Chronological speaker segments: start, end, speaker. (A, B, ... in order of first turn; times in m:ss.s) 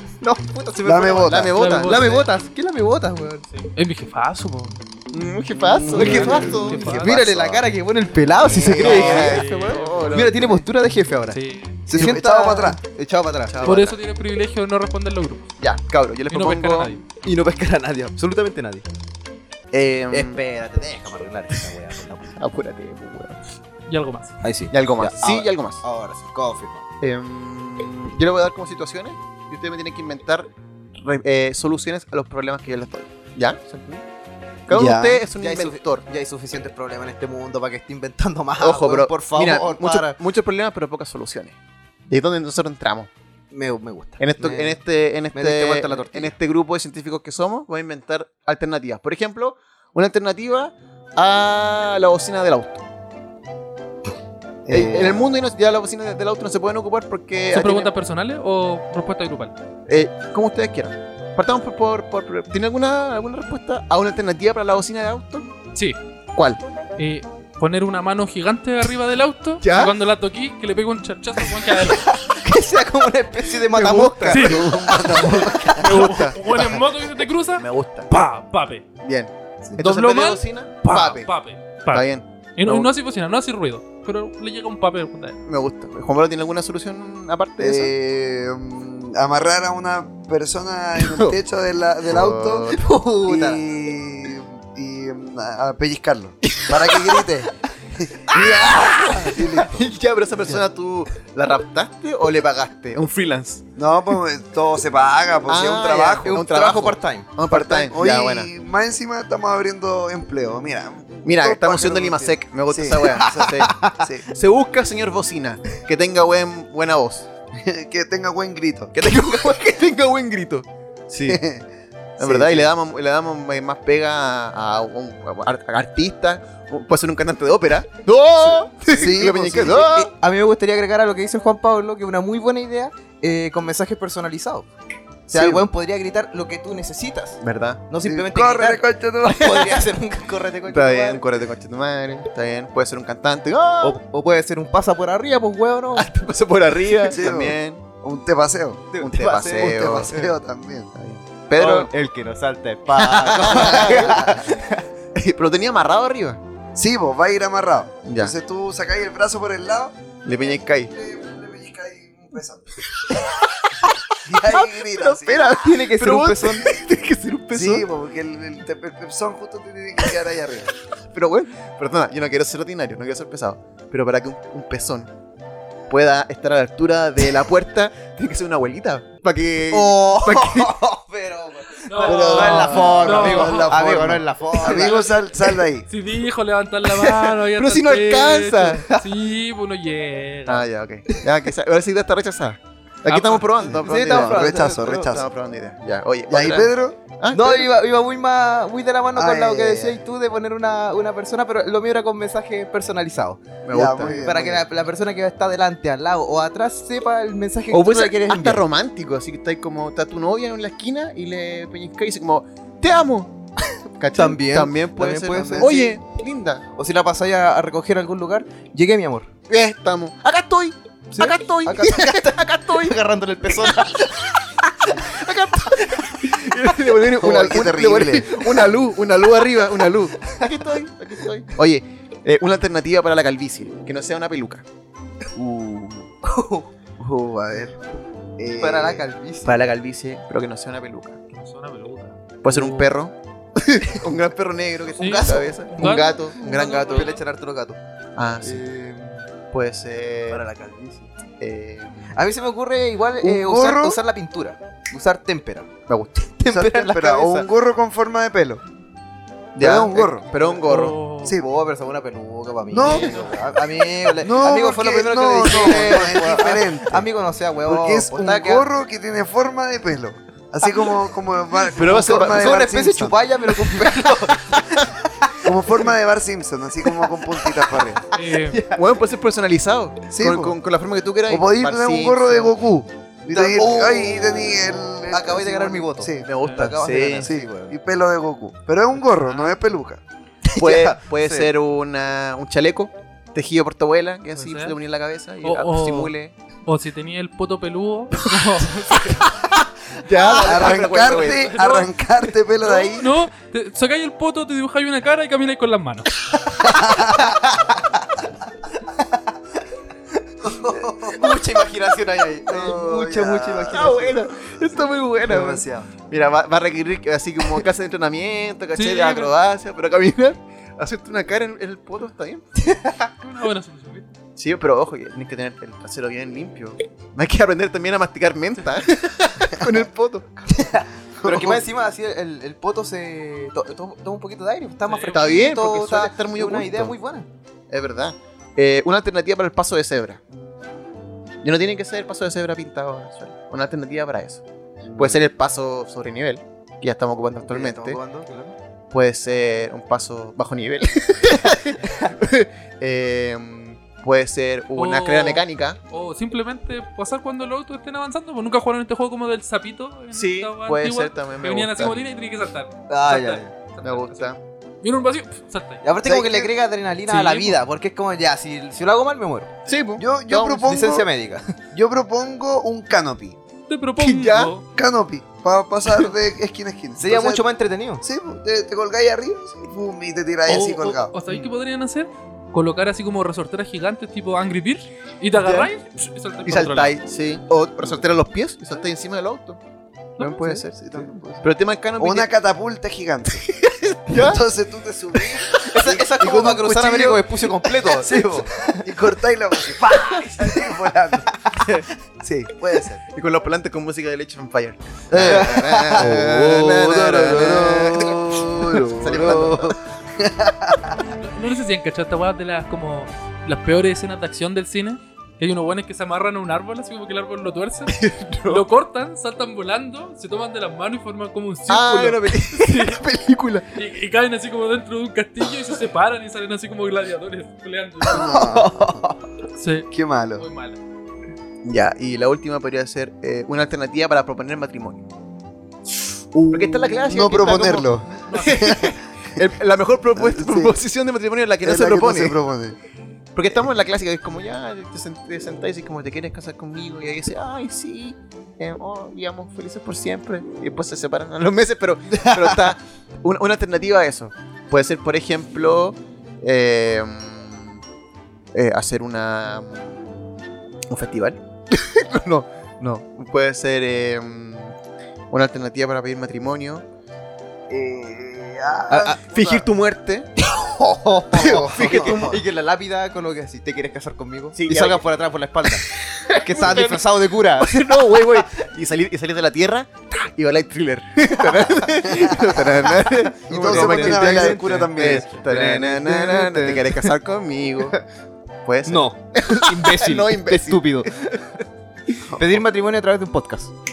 0:00.2-0:03.4 A
0:00.8-0:01.5 B
0:01.2-0:02.0 C
0:01.6-0:02.3 D
0:03.5-0:04.8 D
0:05.1-0:07.6 C
0:05.7-0:07.1 B
0:05.8-0:07.2 D
0:05.9-0:09.4 A
0:08.4-0:09.4 B
0:08.6-0:10.6 C
0:08.7-0:10.6 D
0:10.1-0:13.8 A
0:11.3-0:12.1 D
0:11.9-0:12.8 B
0:12.0-0:12.7 C
0:13.5-0:14.0 C
0:13.6-0:15.5 D
0:15.6-0:16.9 C
0:16.3-0:17.0 D
0:17.2-0:18.8 A
0:19.7-0:20.4 C
0:20.1-0:22.3 A
0:22.4-0:23.4 C
0:23.9-0:24.4 D
0:24.4-0:26.8 A
0:24.7-0:25.8 C
0:27.0-0:34.0 C
0:34.7-0:36.0 C
0:34.7-0:35.2 B
0:35.4-0:40.2 A
0:38.6-0:41.6 C
0:42.1-0:43.1 C
0:43.5-0:44.8 A
0:44.2-0:52.8 C
0:45.3-0:46.3 A
0:54.6-0:55.4 B
0:54.7-0:57.9 C
0:57.5-0:59.5 D
0:59.9-1:05.5 C
1:06.3-1:06.6 C
1:07.0-1:12.0 D
1:09.6-1:09.9 C
1:11.8-1:15.4 A
1:13.7-1:16.4 C
1:14.3-1:18.8 D
1:14.4-1:15.9 B
1:17.6-1:18.1 C
1:19.0-1:21.3 C
1:19.8-1:25.4 D
1:21.9-1:22.9 C
1:25.5-1:27.9 C
1:27.6-1:32.7 B
1:31.0-1:31.4 C
1:32.0-1:32.8 C
1:32.8-1:33.6 A
1:33.2-1:39.9 B
1:38.3-1:43.6 C
1:43.8-1:46.4 B
1:45.5-1:48.5 C
1:46.2-1:47.3 A
1:47.5-1:54.3 B
1:51.2-1:53.7 C
1:53.1-1:54.0 A
1:54.3-1:57.3 C
1:57.6-1:58.9 B
1:58.9-2:01.4 C
2:01.2-2:01.7 B
2:02.2-2:10.1 C
2:02.2-2:02.7 B
2:08.9-2:09.8 B
2:09.5-2:14.7 A
2:15.3-2:21.3 A
2:15.3-2:15.6 B
2:17.4-2:17.8 C
2:18.0-2:19.9 B
2:20.7-2:24.0 C
2:23.8-2:26.1 A
2:25.9-2:27.8 C
2:27.0-2:28.9 B
2:28.9-2:30.3 A
2:29.0-2:30.2 C
2:29.6-2:30.9 B
2:31.0-2:31.9 C
2:31.6-2:34.8 A
2:32.9-2:34.5 B
2:33.3-2:34.4 C
2:35.1-2:36.4 C
2:36.7-2:43.3 B
2:38.0-2:38.3 C
2:40.2-2:40.9 C
2:44.2-2:45.5 B
2:44.4-2:47.8 C
2:45.5-2:46.7 A
2:47.5-2:50.7 B
2:51.1-2:55.1 C
2:55.9-3:00.8 C
2:59.7-3:05.2 A
3:01.9-3:04.0 D
3:02.0-3:05.9 B
3:03.8-3:04.2 C
3:05.9-3:10.7 D
3:06.8-3:08.9 C
3:10.4-3:17.7 C
3:13.1-3:13.8 D
3:13.7-3:15.2 A
3:13.8-3:15.3 B
3:16.3-3:17.0 B
3:17.3-3:23.4 A
3:19.1-3:20.0 B
3:23.6-3:24.2 C
3:23.7-3:24.6 B
3:24.0-3:28.6 A
3:27.7-3:33.3 C
3:33.9-3:36.6 C
3:34.1-3:35.7 A
3:35.3-3:36.0 B
3:36.8-3:39.3 A
3:39.5-3:43.0 C
3:41.1-3:44.3 A
3:43.5-3:43.9 C
3:44.9-3:54.6 C
3:47.2-3:48.3 B
3:55.4-3:56.1 B
3:56.2-3:56.7 A
3:57.0-3:57.8 B
3:58.4-3:59.1 B
3:58.5-3:59.6 A
3:59.4-4:01.2 C
4:01.3-4:02.9 D
4:02.4-4:07.1 C
4:04.9-4:07.2 D
4:05.1-4:07.8 A
4:08.2-4:08.7 C
4:08.5-4:09.1 B
4:09.5-4:10.4 C
4:10.3-4:11.1 A
4:11.4-4:12.2 C
4:12.1-4:17.5 A
4:13.2-4:14.0 B
4:15.9-4:16.2 C
4:16.5-4:18.6 B
4:19.5-4:21.0 C
4:19.6-4:20.2 B
4:20.3-4:20.6 A
4:20.6-4:21.3 D
4:21.3-4:28.7 A
4:22.7-4:23.4 B
4:22.8-4:23.3 D
4:22.8-4:23.3 C
4:24.2-4:27.1 B
4:27.6-4:33.9 B
4:31.7-4:32.6 C
4:31.9-4:35.4 A
4:35.4-4:38.0 B
4:38.1-4:38.8 A
4:38.1-4:38.6 D
4:38.7-4:42.5 C
4:40.1-4:40.6 B
4:41.3-4:46.3 B
4:43.3-4:47.7 A
4:46.2-4:47.3 C
4:46.4-4:46.7 D
4:47.1-4:50.0 B
4:49.0-4:49.6 D
4:50.5-4:51.5 A
4:50.6-4:56.3 C
4:54.3-4:54.8 D
4:55.4-4:56.1 D
4:56.6-4:59.2 D
4:59.9-5:01.5 C
5:00.2-5:03.2 B
5:01.1-5:06.1 D
5:06.6-5:09.2 A
5:06.7-5:07.3 B
5:10.4-5:14.2 A
5:11.0-5:11.3 B
5:12.5-5:14.2 B
5:13.7-5:22.8 C
5:15.2-5:15.9 B
5:18.7-5:19.3 D
5:23.2-5:24.1 D
5:24.4-5:30.4 C
5:30.5-5:37.3 A
5:31.2-5:31.6 B
5:34.8-5:35.3 D
5:35.1-5:37.0 C
5:37.7-5:40.2 C
5:41.4-5:44.4 C
5:44.8-5:45.2 B
5:45.0-5:48.0 C
5:47.4-5:48.5 A
5:48.9-5:55.8 C
5:54.7-6:05.8 D
6:00.1-6:02.0 C
6:02.9-6:03.5 A
6:03.8-6:04.4 C
6:05.8-6:09.5 A
6:06.0-6:06.5 B
6:07.0-6:07.6 D
6:09.6-6:10.8 C
6:10.0-6:11.1 B
6:10.6-6:11.4 A
6:11.7-6:13.4 B
6:13.7-6:14.6 D
6:14.0-6:14.5 C
6:14.7-6:17.4 B
6:17.0-6:18.0 A
6:18.0-6:21.1 B
6:20.4-6:26.9 D
6:25.4-6:25.7 C
6:26.4-6:29.6 C
6:30.2-6:30.6 D
6:30.2-6:32.3 C
6:30.8-6:33.5 B
6:33.5-6:34.4 C
6:34.1-6:41.3 B
6:35.7-6:38.6 A
6:39.8-6:41.9 A
6:42.2-6:43.0 B
6:43.1-6:48.3 C
6:45.1-6:50.9 B
6:45.1-6:47.7 A
6:48.8-6:49.8 C
6:51.2-7:03.0 D
6:57.9-6:58.6 C
7:01.7-7:03.7 C
7:03.7-7:08.4 D
7:08.0-7:09.0 B
7:08.1-7:09.2 A
7:09.6-7:10.8 D
7:09.9-7:10.5 B
7:11.6-7:15.0 C
7:16.3-7:19.0 B
7:16.5-7:22.4 C
7:17.3-7:18.8 D
7:20.1-7:20.8 B
7:21.6-7:22.8 B
7:23.3-7:37.8 C
7:38.5-7:40.0 C
7:40.9-7:44.7 C
7:45.3-7:46.8 C
7:47.7-7:49.7 B
7:48.9-7:49.2 A
7:49.0-7:50.3 C
7:50.4-7:57.8 A
7:51.3-7:52.4 C
7:51.4-7:52.4 B
7:54.5-7:55.1 C
7:56.3-8:07.9 C
8:03.5-8:05.2 B
8:03.5-8:07.1 A
8:08.6-8:11.6 C
8:08.8-8:11.1 A
8:12.3-8:13.7 A